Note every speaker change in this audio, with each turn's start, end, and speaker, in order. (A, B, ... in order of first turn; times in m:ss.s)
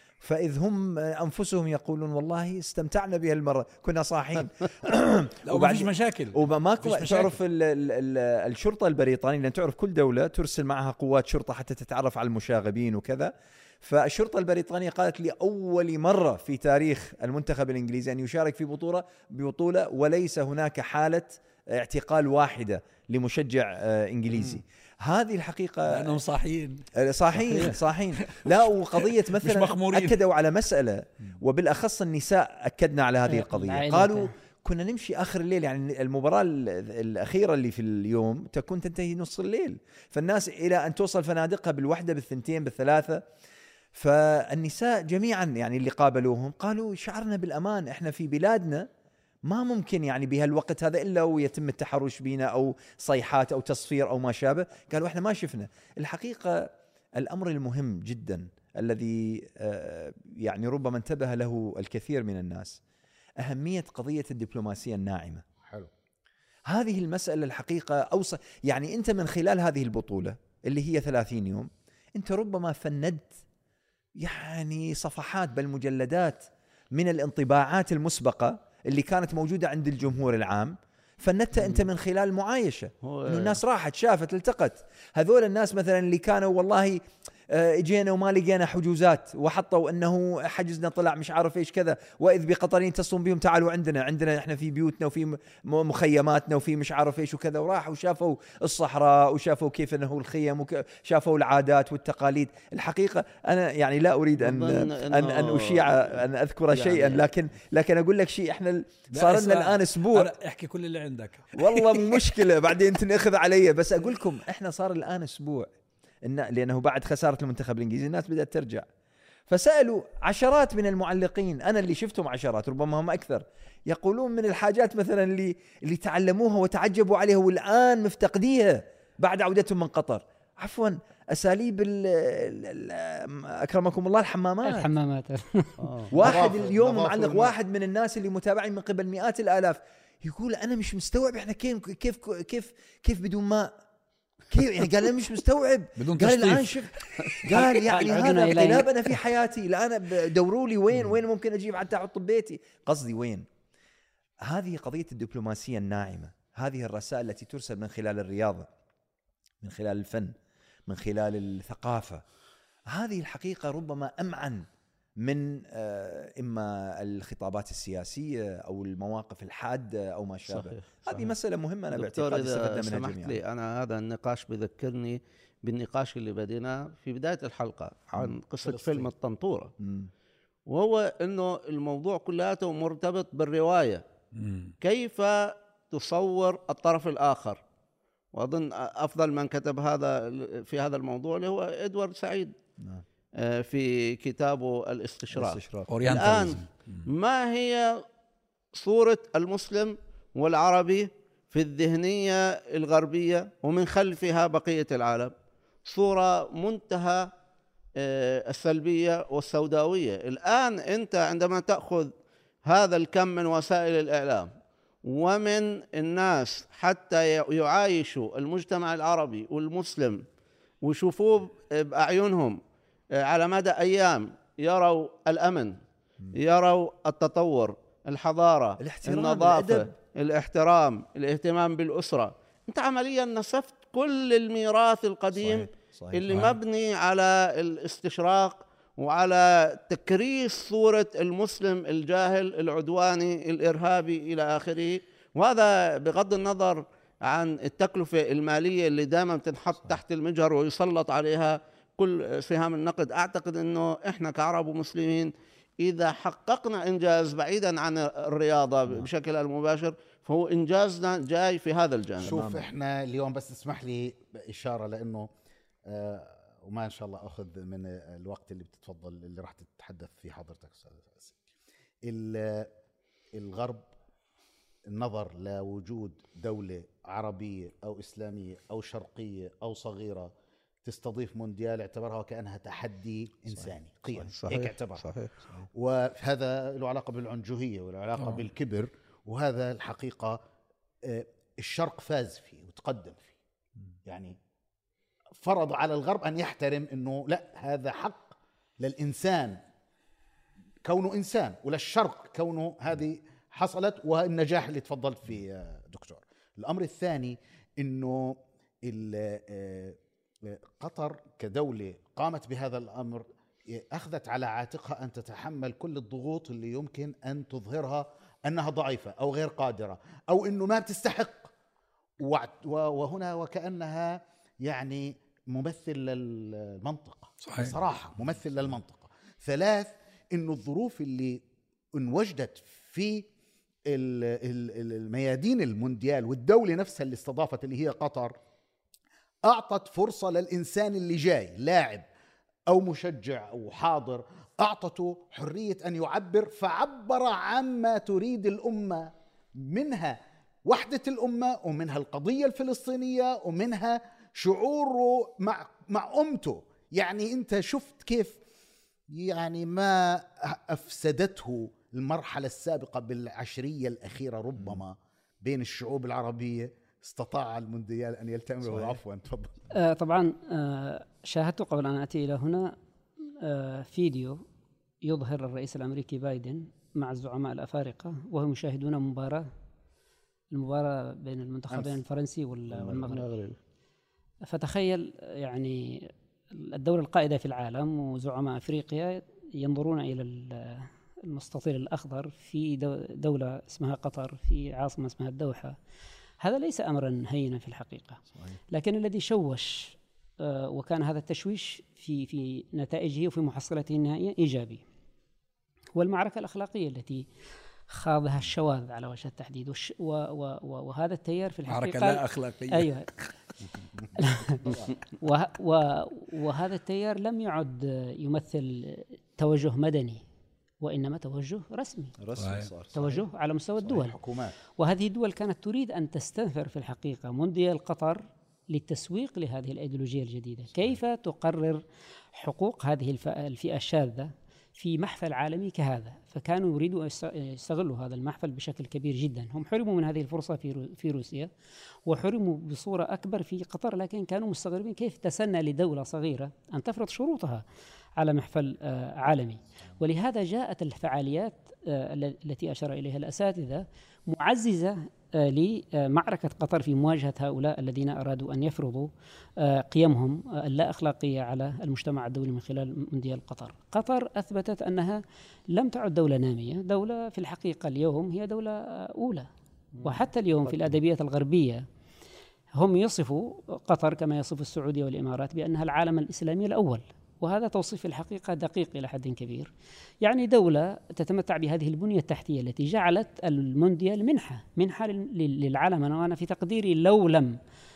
0:00.2-0:26.2 A
0:05.4-0:07.3 B
0:25.9-0:26.8 B
0:26.9-0:43.2 A
0:27.4-0:30.2 B
0:33.3-0:34.3 C
0:43.9-0:48.9 A
0:49.4-1:02.8 A
1:03.4-1:05.4 A
1:05.6-1:05.9 D
1:06.7-1:13.3 A
1:14.2-1:50.3 A
1:23.0-1:23.6 E
1:44.4-1:46.1 E
1:46.7-1:47.2 E
1:49.1-1:52.2 B
1:51.6-1:55.7 A
1:56.2-1:58.8 A
1:59.5-2:14.9 A
2:14.6-2:16.0 C
2:15.8-2:16.1 E
2:16.1-2:23.7 A
2:16.2-2:17.5 D
2:24.5-2:26.9 A
2:26.0-2:27.5 B
2:27.4-2:33.4 A
2:27.5-2:28.9 C
2:34.4-2:38.7 A
2:39.6-2:40.3 A
2:40.9-2:42.2 A
2:42.9-2:44.7 A
2:45.2-2:53.4 A
2:50.5-2:51.3 E
2:51.9-2:59.7 E
2:58.6-2:59.1 D
2:59.8-3:00.1 A
3:00.7-3:04.0 E
3:04.3-3:04.7 B
3:04.8-3:07.6 E
3:08.3-3:12.6 E
3:13.4-3:18.0 E
3:15.3-3:15.9 A
3:15.9-3:17.0 B
3:18.7-3:25.3 E
3:25.8-3:27.3 E
3:28.0-3:32.1 E
3:32.6-3:34.5 E
3:35.0-3:40.2 E
3:40.8-3:42.6 E
3:43.1-3:45.8 E
3:46.3-4:22.4 E
3:48.8-3:49.9 A
3:55.3-3:56.4 A
4:22.2-4:25.3 D
4:22.2-4:22.7 A
4:25.9-4:31.4 D
4:32.0-4:32.7 D
4:33.3-4:33.9 D
4:34.9-4:40.3 D
4:40.8-4:45.1 D
4:43.5-4:44.3 A
4:44.3-4:45.3 E
4:45.7-4:50.4 D
4:48.2-4:48.4 B
4:51.0-4:53.3 D
4:54.0-4:54.4 D
4:55.4-4:59.6 D
5:00.8-5:21.5 D
5:22.2-5:31.4 D
5:27.4-5:27.7 B
5:31.9-5:33.3 D
5:33.9-5:38.4 D
5:39.4-5:42.0 D
5:42.7-5:58.4 D
5:59.1-6:09.5 D
6:08.6-6:09.0 A
6:09.7-6:12.7 C
6:13.4-6:14.4 C
6:15.0-6:19.5 C
6:20.5-6:23.4 C
6:23.0-6:23.6 E
6:24.5-6:35.8 C
6:36.4-6:44.8 C
6:46.0-6:47.3 C
6:47.9-6:53.1 C
6:51.7-6:53.2 B
6:54.1-7:00.2 C
7:00.8-7:02.2 C
7:02.2-7:02.9 A
7:02.4-7:02.7 B
7:02.9-7:21.5 C
7:03.8-7:04.6 D
7:22.0-7:27.6 C
7:28.2-7:49.5 C
7:50.0-7:51.8 C
7:52.7-7:59.7 C
8:00.2-8:07.6 C